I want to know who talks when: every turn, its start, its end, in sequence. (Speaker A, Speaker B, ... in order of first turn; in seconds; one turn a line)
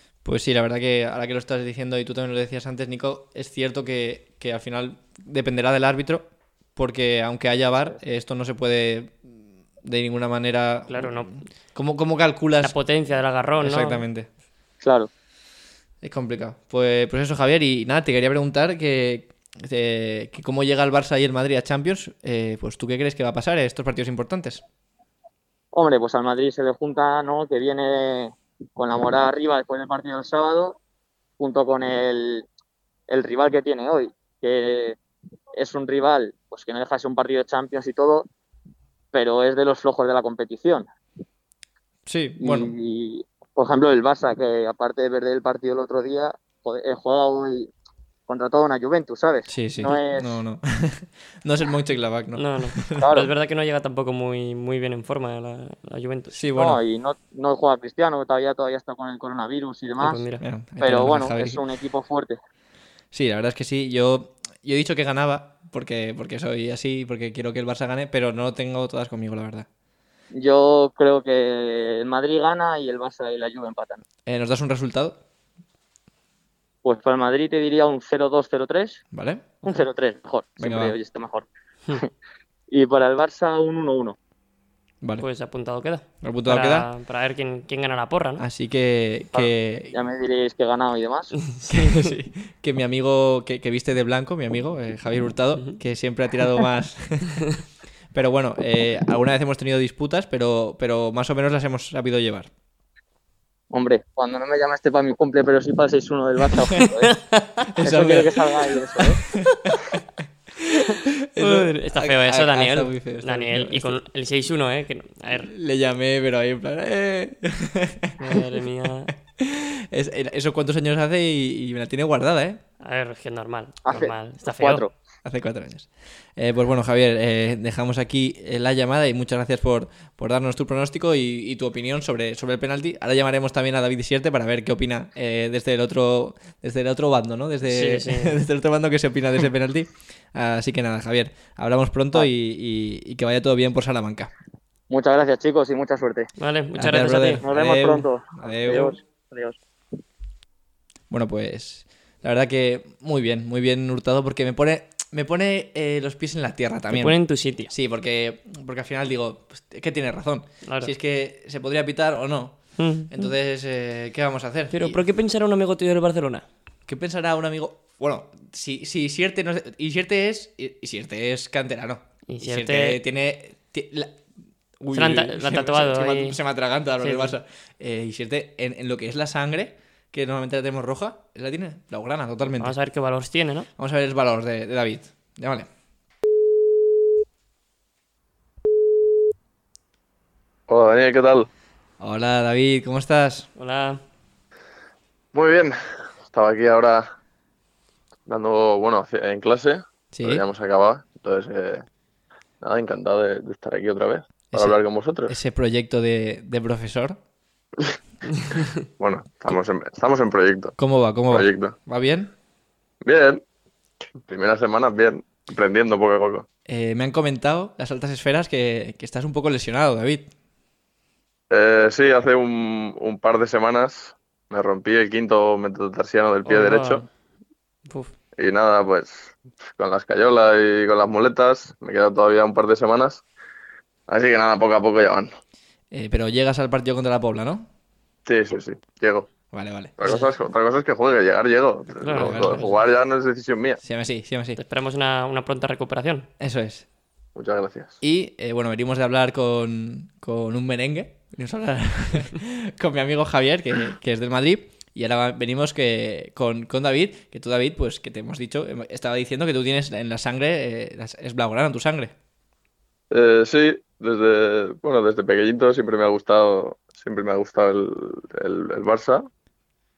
Speaker A: 0.2-9.3
Speaker A: 9.8-12.8
Speaker B: 10.9-11.4
Speaker B: 12.6-14.0
Speaker A: 13.6-14.3
Speaker C: 14.8-15.1
Speaker A: 16.0-24.6
Speaker C: 25.7-30.8
Speaker C: 31.4-32.5
Speaker C: 33.1-35.0
Speaker C: 35.5-38.3
Speaker C: 39.1-40.9
Speaker A: 42.1-42.7
Speaker C: 42.4-47.7
Speaker C: 48.3-50.4
Speaker A: 49.5-53.0
Speaker B: 52.4-56.4
Speaker C: 53.0-53.3
Speaker A: 56.3-56.8
Speaker C: 56.5-60.2
Speaker B: 60.0-60.4
Speaker A: 60.4-61.6
Speaker C: 60.8-62.4
Speaker A: 63.1-69.7
Speaker C: 70.3-74.0
Speaker A: 74.2-75.2
Speaker C: 76.8-79.0
Speaker A: 79.1-79.6
Speaker C: 79.6-82.1
Speaker A: 80.6-81.0
Speaker C: 82.7-84.2
Speaker B: 85.2-88.4
Speaker A: 86.2-86.9
Speaker A: 88.4-89.9
Speaker C: 89.3-91.3
Speaker B: 91.5-92.1
Speaker A: 91.7-97.5
Speaker A: 98.1-102.5
Speaker C: 103.7-109.2
Speaker B: 106.8-107.7
Speaker A: 107.7-108.3
Speaker A: 109.3-110.0
Speaker A: 110.6-114.0
Speaker B: 111.4-115.5
Speaker A: 115.3-118.4
Speaker B: 118.2-119.1
Speaker A: 119.4-122.6
Speaker B: 122.8-124.8
Speaker C: 123.8-124.9
Speaker A: 125.2-144.3
Speaker B: 137.6-138.4
Speaker C: 144.9-146.3
Speaker B: 146.4-147.4
Speaker A: 146.8-148.9
Speaker C: 147.4-149.6
Speaker A: 151.1-165.0
Speaker B: 156.9-157.7
Speaker B: 160.6-160.9
Speaker B: 162.8-163.3
Speaker B: 164.7-166.4
Speaker A: 166.9-174.2
Speaker B: 172.3-173.0
Speaker A: 174.8-182.7
Speaker B: 174.9-176.4
Speaker B: 177.0-177.3
Speaker B: 182.6-183.7
Speaker A: 183.8-185.7
Speaker D: 190.7-191.5
Speaker A: 192.0-193.5
Speaker B: 193.6-194.0
Speaker D: 195.3-197.1
Speaker D: 198.3-201.8
Speaker A: 200.1-200.4
Speaker D: 202.6-205.3
Speaker A: 204.5-207.2
Speaker D: 209.0-210.8
Speaker A: 210.8-212.3
Speaker D: 211.3-211.7
Speaker D: 213.0-213.4
Speaker D: 214.3-216.4
Speaker A: 216.7-220.3
Speaker D: 221.5-227.0
Speaker B: 226.4-227.1
Speaker B: 227.8-228.1
Speaker D: 228.4-233.2
Speaker D: 234.1-235.3
Speaker A: 235.9-237.7
Speaker D: 238.2-239.3
Speaker A: 239.5-240.1
Speaker D: 240.0-243.8
Speaker B: 242.0-242.7
Speaker A: 242.1-242.8
Speaker A: 243.8-244.6
Speaker B: 244.6-246.3
Speaker A: 246.4-246.8
Speaker D: 247.3-248.0
Speaker A: 248.0-262.1
Speaker D: 263.1-269.3